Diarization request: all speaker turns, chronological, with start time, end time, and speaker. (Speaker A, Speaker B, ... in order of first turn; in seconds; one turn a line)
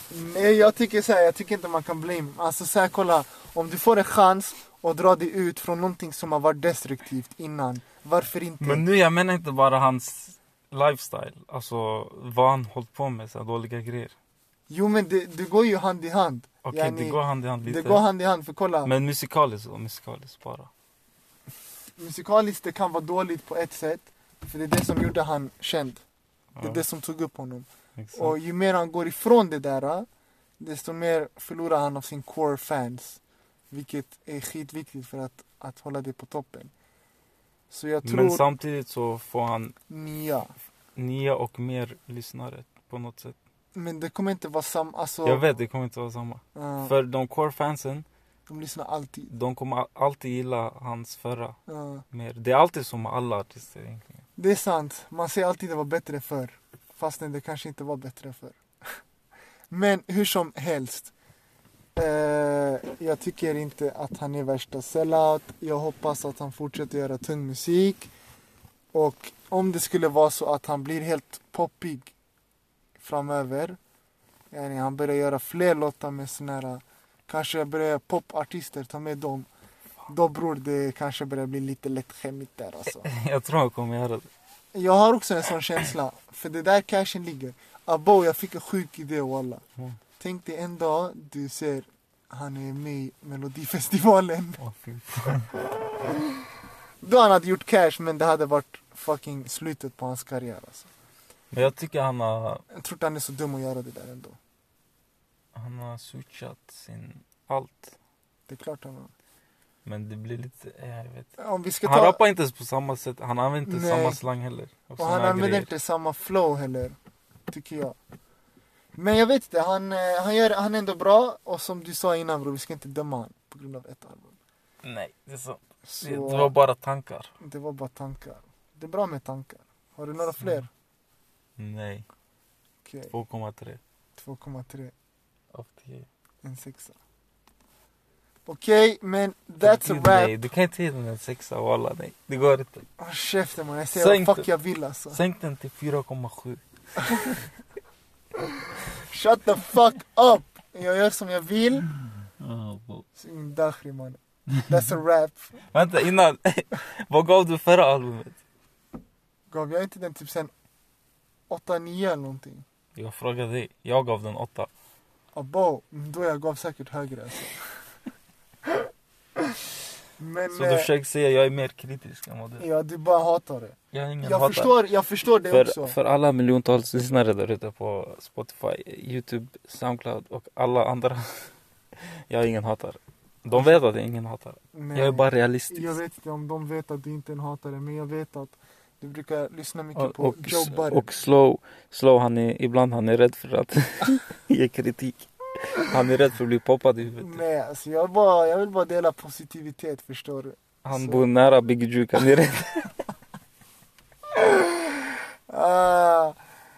Speaker A: 0.1-8.8
Speaker B: 8.6-14.1
Speaker A: 14.7-18.9
Speaker B: 16.6-18.0
Speaker B: 18.8-20.7
Speaker A: 22.0-26.0
Speaker B: 26.6-26.8
Speaker A: 26.6-30.1
Speaker B: 28.0-28.4
Speaker A: 30.6-33.2
Speaker A: 33.7-36.7
Speaker A: 37.7-38.4
Speaker B: 38.0-39.8
Speaker A: 39.9-40.5
Speaker B: 41.0-43.4
Speaker A: 43.7-45.5
Speaker B: 45.2-48.0
Speaker A: 46.5-46.9
Speaker A: 48.5-49.3
Speaker B: 49.3-51.6
Speaker A: 51.7-52.0
Speaker B: 52.1-54.2
Speaker A: 54.4-59.0
Speaker A: 59.7-61.1
Speaker A: 62.0-68.1
Speaker A: 68.9-72.1
Speaker A: 73.0-73.8
Speaker A: 74.5-79.5
Speaker A: 80.1-83.1
Speaker B: 83.0-84.3
Speaker A: 84.7-89.6
Speaker A: 90.2-94.6
Speaker B: 94.6-95.5
Speaker A: 95.7-96.4
Speaker A: 97.0-100.9
Speaker B: 101.5-102.6
Speaker A: 102.7-104.4
Speaker B: 105.5-107.9
Speaker A: 108.5-109.1
Speaker B: 109.8-111.3
Speaker A: 111.4-112.2
Speaker B: 111.8-115.7
Speaker A: 113.7-114.2
Speaker A: 115.0-117.0
Speaker A: 117.5-118.0
Speaker A: 119.0-124.3
Speaker B: 124.8-127.3
Speaker A: 125.8-126.5
Speaker A: 127.4-130.7
Speaker B: 131.6-132.1
Speaker A: 132.8-133.1
Speaker B: 133.1-133.8
Speaker A: 134.2-134.9
Speaker B: 135.5-136.1
Speaker A: 136.4-136.9
Speaker A: 138.4-140.4
Speaker B: 139.6-142.8
Speaker A: 143.0-145.2
Speaker B: 143.9-144.5
Speaker B: 145.1-147.4
Speaker A: 148.5-151.8
Speaker B: 152.4-153.0
Speaker A: 153.2-155.5
Speaker B: 155.7-158.4
Speaker A: 159.5-160.5
Speaker A: 161.5-162.6
Speaker B: 162.9-164.7
Speaker A: 165.3-167.6
Speaker A: 170.2-170.9
Speaker B: 170.5-172.7
Speaker A: 172.6-175.9
Speaker B: 173.9-174.8
Speaker B: 175.5-181.5
Speaker B: 182.0-186.0
Speaker A: 184.7-191.1
Speaker B: 189.9-197.4
Speaker A: 197.2-201.2
Speaker B: 200.8-203.0
Speaker A: 204.3-206.4